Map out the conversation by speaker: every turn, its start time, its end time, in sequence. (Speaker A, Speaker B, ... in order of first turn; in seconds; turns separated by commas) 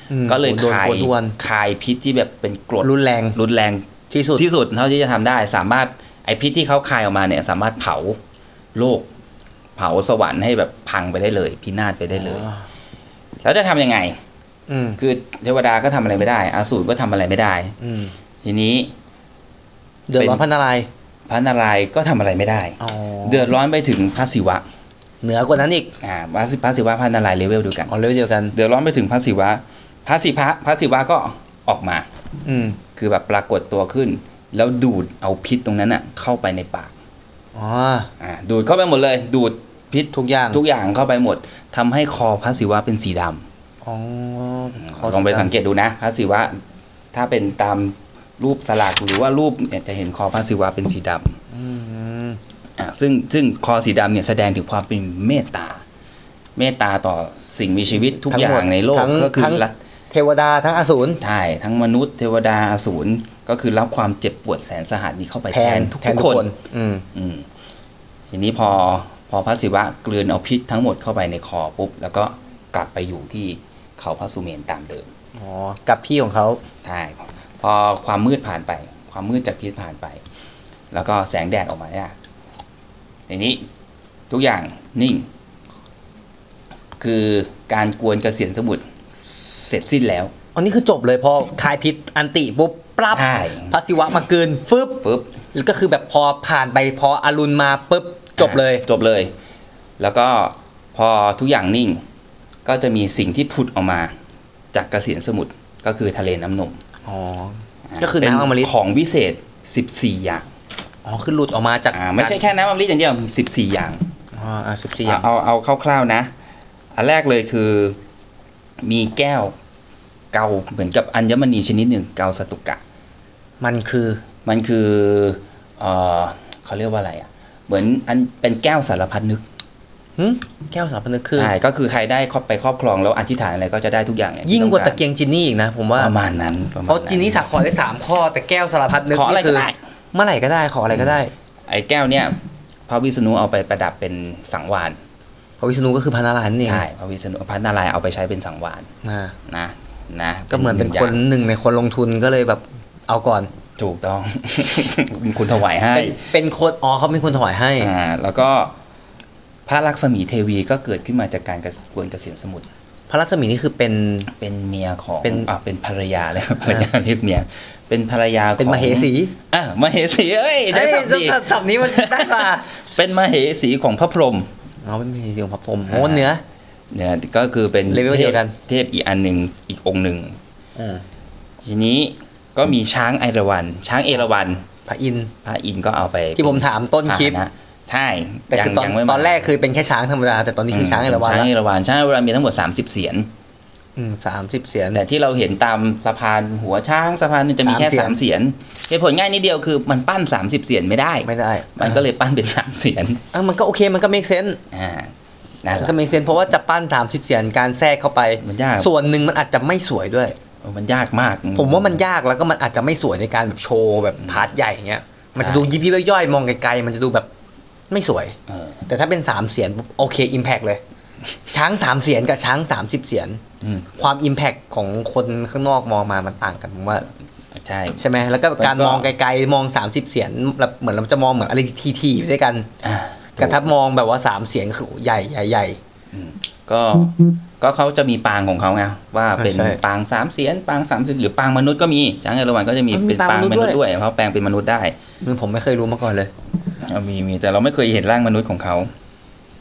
Speaker A: 0.1-1.4, Speaker B: 0.3-8.2, Speaker A: 2.8-3.4, Speaker A: 4.1-4.5, Speaker B: 8.8-9.1, Speaker B: 9.8-12.4, Speaker A: 12.2-12.6, Speaker B: 13.4-14.2, Speaker A: 14.7-15.0, Speaker B: 15.0-17.8, Speaker A: 17.8-18.1, Speaker B: 18.4-18.9, Speaker A: 20.1-20.9, Speaker B: 20.2-20.4, Speaker B: 21.3-24.6, Speaker A: 22.8-23.5, Speaker A: 25.2-25.9, Speaker B: 26.0-27.9, Speaker A: 27.9-28.5, Speaker B: 28.5-32.1, Speaker A: 32.5-32.8, Speaker B: 33.0-36.9, Speaker A: 37.5-38.1, Speaker B: 38.2-43.4, Speaker A: 40.1-40.6, Speaker A: 43.8-45.5, Speaker B: 44.8-46.6, Speaker B: 47.1-51.4, Speaker A: 51.5-52.4, Speaker B: 52.8-55.8, Speaker B: 56.6-59.7, Speaker A: 58.2-61.2, Speaker B: 61.2-66.5, Speaker A: 65.5-67.0, Speaker B: 67.1-67.5, Speaker B: 68.3-75.1, Speaker A: 75.4-76.6, Speaker B: 76.8-80.2, Speaker B: 80.9-82.2, Speaker B: 83.3-83.6, Speaker B: 84.3-85.3, Speaker B: 87.0-90.3, Speaker A: 90.5-98.8, Speaker B: 93.1-93.8, Speaker B: 95.0-95.3, Speaker B: 98.4-99.3, Speaker B: 100.0-102.0, Speaker B: 102.7-104.2, Speaker B: 104.7-106.8, Speaker A: 107.1-108.7, Speaker B: 107.9-110.5, Speaker A: 111.0-112.4, Speaker B: 111.9-114.1, Speaker A: 114.3-115.3, Speaker B: 115.0-116.3, Speaker B: 117.0-118.0, Speaker B: 118.8-119.5, Speaker B: 120.3-122.8, Speaker A: 123.6-124.2, Speaker B: 124.5-129.4, Speaker A: 130.2-131.5, Speaker B: 131.3-135.0, Speaker A: 134.5-136.1, Speaker B: 136.0-137.5, Speaker A: 136.9-141.3, Speaker B: 139.1-139.8, Speaker B: 140.9-145.0, Speaker A: 145.6-146.8, Speaker B: 146.7-148.9, Speaker A: 149.0-149.3, Speaker B: 149.5-151.2, Speaker A: 150.5-153.5, Speaker B: 153.8-156.2, Speaker A: 155.9-157.9, Speaker B: 157.8-158.7, Speaker B: 159.7-162.7, Speaker A: 163.1-164.3, Speaker B: 164.3-174.5, Speaker A: 165.2-165.5, Speaker A: 168.6-169.3, Speaker A: 170.7-172.7, Speaker A: 174.8-176.4, Speaker B: 175.9-176.3, Speaker B: 176.9-180.4, Speaker A: 177.9-178.6, Speaker A: 180.8-181.0, Speaker B: 181.7-184.7, Speaker A: 184.9-185.3, Speaker B: 185.4-189.5, Speaker A: 186.4-187.4, Speaker A: 188.5-191.5, Speaker B: 190.7-193.3, Speaker A: 194.0-195.0, Speaker B: 194.9-203.2, Speaker A: 197.6-198.2, Speaker A: 201.2-202.0, Speaker A: 203.3-204.6, Speaker B: 204.7-205.1, Speaker B: 205.6-206.1, Speaker A: 205.8-210.4, Speaker B: 208.4-208.9, Speaker B: 210.6-212.0, Speaker A: 211.6-217.3, Speaker B: 214.2-214.5, Speaker B: 215.4-215.7, Speaker A: 217.9-218.4, Speaker B: 218.5-218.8, Speaker A: 218.9-220.8, Speaker A: 221.5-223.4, Speaker B: 223.6-223.9, Speaker A: 224.0-227.1, Speaker B: 227.5-228.0, Speaker A: 228.0-232.7, Speaker B: 228.6-229.1, Speaker B: 232.8-233.6, Speaker A: 233.4-235.8, Speaker B: 236.1-245.0, Speaker A: 239.4-239.8, Speaker A: 242.9-243.8, Speaker A: 245.2-246.3, Speaker B: 246.8-248.9